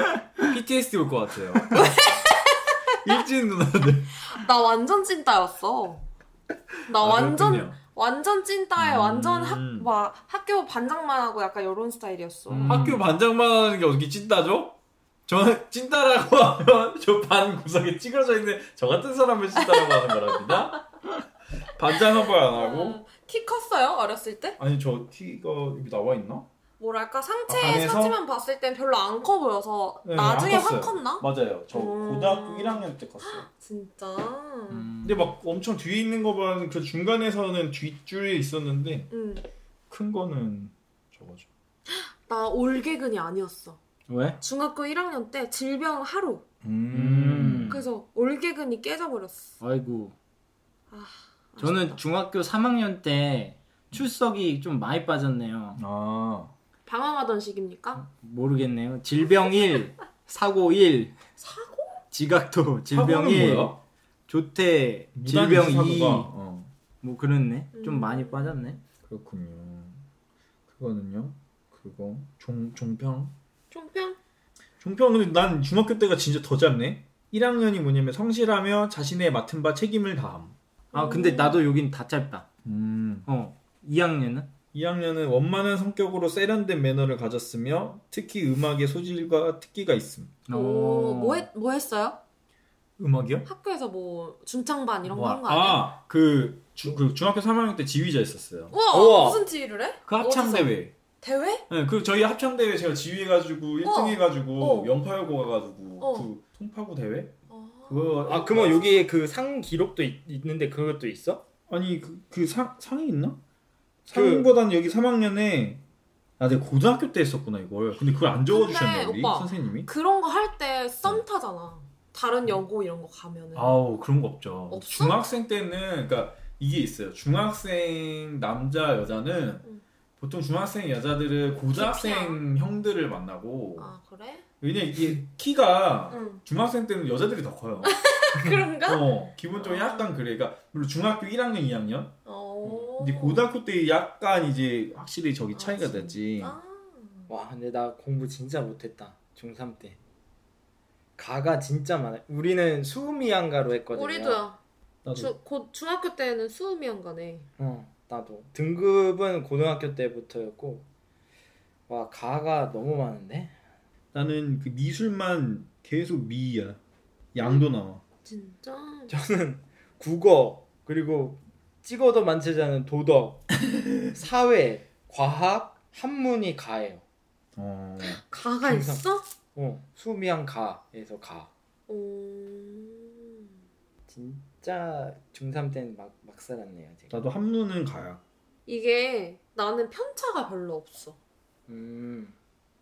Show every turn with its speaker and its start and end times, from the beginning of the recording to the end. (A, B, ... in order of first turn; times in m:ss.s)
0:00.4-0:01.8 A
0:01.7-0:03.1 B
0:03.0-0:04.2 A
0:04.2-0:06.1 B
0:06.9-0:12.8 B
0:06.9-0:07.8 A
0:08.8-0:09.9 A
0:12.5-0:13.0 C
0:12.6-0:14.8 A
0:15.3-0:20.8 A
0:19.6-0:20.8 B
0:21.7-0:23.0 A
0:21.9-0:24.6 B
0:24.6-0:26.5 A
0:26.8-0:34.9 B
0:27.5-0:28.2 A
0:30.0-0:33.4 A
0:34.7-0:35.3 C
0:35.0-0:39.1 A
0:39.1-0:39.4 B
0:39.9-0:41.5 A
0:41.9-0:43.8 B
0:44.1-0:44.4 C
0:44.4-0:46.4 B
0:46.6-0:47.8 C
0:46.9-0:47.8 A
0:47.7-0:49.5 B
0:49.6-0:50.2 C
0:50.9-0:52.0 B
0:51.6-0:55.8 C
0:55.8-0:56.5 A
0:56.9-0:58.0 B
0:58.0-1:01.2 C
1:01.4-1:02.0 B
1:02.1-1:03.8 C
1:02.9-1:03.8 A
1:04.3-1:06.3 C
1:05.1-1:06.7 A
1:07.0-1:08.8 C
1:07.7-1:08.6 B
1:09.1-1:10.0 A
1:10.7-1:13.3 A
1:13.7-1:14.2 B
1:14.8-1:20.5 A
1:20.9-1:21.6 B
1:20.9-1:22.5 C
1:22.6-1:23.3 A
1:23.2-1:24.5 C
1:24.7-1:30.4 A
1:30.5-1:31.5 C
1:30.5-1:32.2 B
1:33.0-1:33.5 A
1:33.5-1:35.8 B
1:35.0-1:38.8 A
1:38.7-1:41.6 B
1:38.9-1:39.4 C
1:40.1-1:40.9 A
1:41.7-1:47.4 A
1:43.8-1:44.9 B
1:46.0-1:46.3 B
1:47.5-1:48.5 B
1:47.9-1:49.0 A
1:48.2-1:51.4 C
1:51.7-1:53.4 A
1:54.0-1:55.8 A
1:54.1-1:54.5 C
1:56.4-1:59.9 A
1:58.5-2:03.8 B
2:03.5-2:09.6 A
2:04.7-2:05.2 B
2:10.2-2:13.9 A
2:11.7-2:12.4 B
2:13.8-2:14.4 B
2:14.6-2:26.6 A
2:16.1-2:16.4 B
2:17.8-2:20.1 B
2:22.2-2:23.4 B
2:25.5-2:27.3 B
2:27.3-2:30.0 C
2:31.2-2:34.4 C
2:33.9-2:34.6 B
2:35.0-2:35.3 A
2:35.1-2:37.5 B
2:37.6-2:40.8 C
2:41.9-2:43.5 C
2:44.1-2:46.8 A
2:47.3-2:48.0 A
2:47.4-2:47.6 B
2:48.2-2:49.1 B
2:49.1-2:53.5 C
2:54.1-2:57.0 C
2:57.6-2:58.2 A
2:58.0-2:59.2 B
2:58.6-2:59.0 C
2:59.6-3:01.5 C
3:01.9-3:03.4 B
3:04.1-3:07.1 C
3:07.1-3:08.2 A
3:08.7-3:11.2 B
3:11.7-3:12.4 C